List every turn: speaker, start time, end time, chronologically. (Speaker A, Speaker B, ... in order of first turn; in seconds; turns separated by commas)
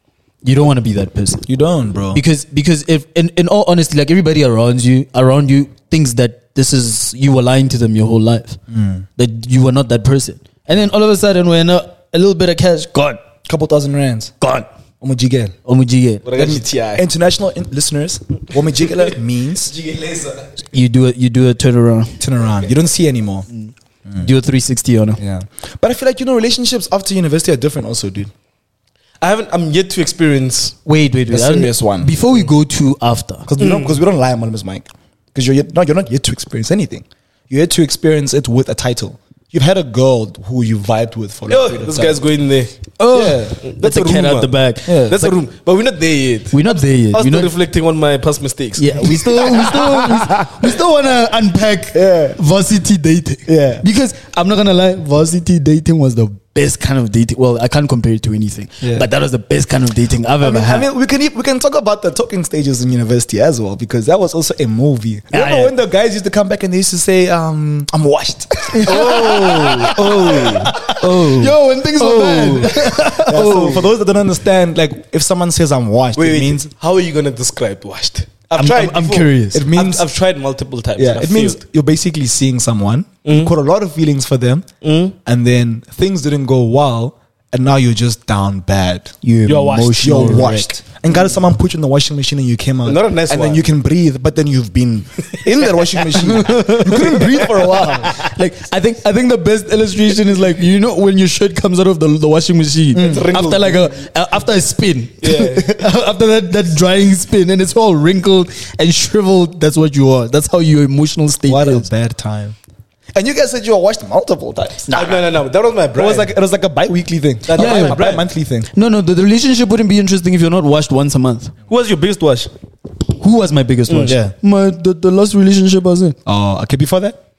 Speaker A: 0.4-1.4, Speaker B: 1.5-2.2, Speaker A: 2.1-8.6, Speaker B: 8.7-9.1, Speaker A: 9.2-13.2, Speaker B: 13.4-14.3, Speaker A: 14.4-14.7, Speaker B: 15.0-15.5, Speaker A: 15.7-16.2, Speaker C: 16.2-17.0, Speaker B: 16.4-19.7, Speaker C: 19.7-20.4, Speaker A: 20.7-22.2, Speaker B: 22.2-23.5, Speaker A: 23.6-25.2, Speaker B: 25.2-28.3, Speaker C: 29.2-30.8, Speaker A: 30.9-33.5, Speaker B: 31.3-32.1, Speaker B: 33.5-42.2, Speaker C: 33.6-34.0, Speaker C: 41.5-42.7, Speaker A: 43.0-45.4, Speaker B: 43.1-43.5, Speaker C: 43.6-49.8, Speaker B: 44.9-45.2, Speaker A: 46.5-47.5, Speaker A: 48.8-60.9, Speaker B: 49.6-50.5, Speaker B: 51.9-52.4, Speaker B: 53.5-53.8, Speaker B: 58.8-59.1, Speaker B: 60.4-71.5, Speaker A: 65.3-65.7, Speaker A: 68.7-73.8, Speaker C: 68.9-73.8, Speaker B: 72.5-76.7, Speaker C: 76.2-81.6, Speaker A: 78.5-79.6, Speaker B: 79.5-80.1, Speaker B: 81.0-84.7, Speaker C: 83.2-83.5, Speaker C: 84.8-85.1, Speaker B: 85.2-89.1, Speaker A: 89.2-90.7, Speaker C: 89.5-90.5, Speaker B: 90.0-98.1, Speaker C: 92.8-93.7, Speaker C: 95.2-96.0, Speaker A: 96.2-97.4, Speaker C: 97.2-98.2, Speaker A: 98.2-111.9, Speaker B: 102.9-103.3, Speaker C: 102.9-104.0, Speaker C: 105.2-105.7, Speaker B: 111.5-112.5, Speaker B: 113.1-115.2, Speaker A: 114.9-115.2, Speaker C: 114.9-116.3, Speaker B: 115.9-118.7, Speaker C: 117.5-118.2, Speaker A: 117.5-118.0, Speaker A: 118.7-121.5, Speaker C: 121.7-122.5, Speaker A: 123.1-126.2, Speaker C: 123.9-124.2, Speaker B: 124.0-124.3, Speaker B: 126.2-127.2